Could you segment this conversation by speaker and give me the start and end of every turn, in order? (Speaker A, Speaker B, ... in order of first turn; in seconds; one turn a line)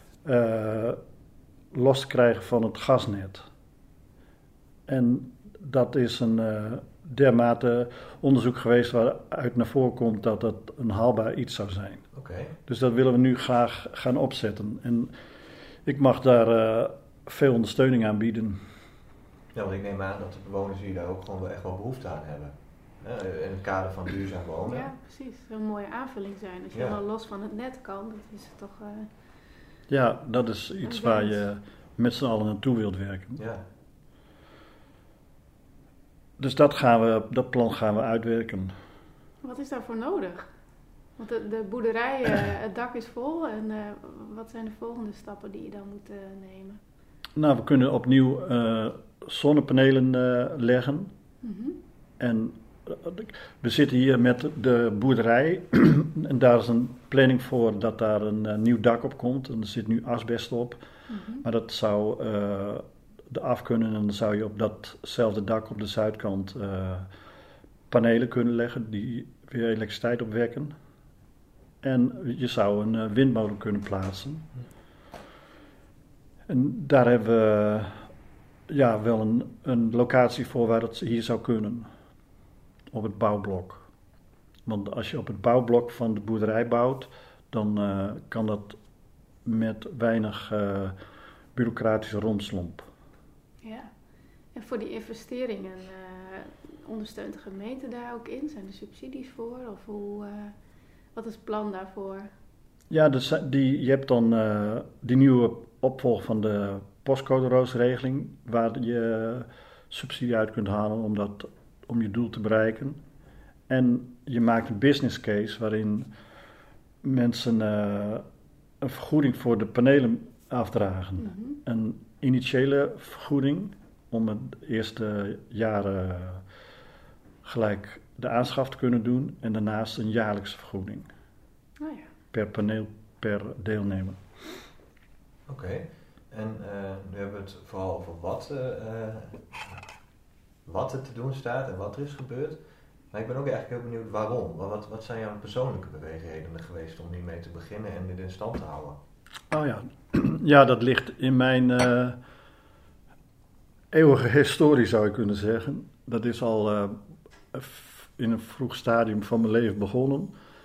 Speaker A: 0.2-1.0
Speaker A: 1.7-3.5
Speaker A: 4.9-12.0
Speaker B: 12.1-12.6
Speaker A: 12.7-15.1
Speaker A: 15.8-18.6
Speaker B: 19.5-24.9
Speaker C: 24.7-29.1
Speaker B: 26.7-27.0
Speaker A: 29.9-33.4
Speaker C: 30.8-31.4
Speaker B: 33.4-33.6
Speaker A: 36.4-38.7
Speaker C: 39.4-40.5
Speaker C: 41.2-46.8
Speaker A: 47.4-51.1
Speaker C: 51.4-51.8
Speaker A: 52.2-60.8
Speaker C: 61.1-61.4
Speaker A: 61.4-67.1
Speaker A: 67.9-70.7
Speaker A: 71.8-74.5
Speaker A: 76.5-78.0
Speaker A: 78.7-81.9
Speaker A: 82.9-83.8
Speaker A: 84.7-88.8
Speaker A: 89.4-91.0
Speaker A: 91.5-92.9
Speaker C: 93.6-93.9
Speaker C: 94.5-100.5
Speaker C: 101.1-102.3
Speaker A: 102.9-113.0
Speaker A: 113.7-116.1
Speaker A: 117.0-118.2
Speaker A: 118.8-126.4
Speaker C: 121.2-121.6
Speaker A: 127.4-131.1
Speaker C: 131.8-132.1
Speaker A: 132.3-134.2
Speaker B: 135.5-139.8
Speaker B: 140.7-149.0
Speaker A: 149.5-152.2
Speaker A: 153.9-157.0
Speaker A: 157.5-160.3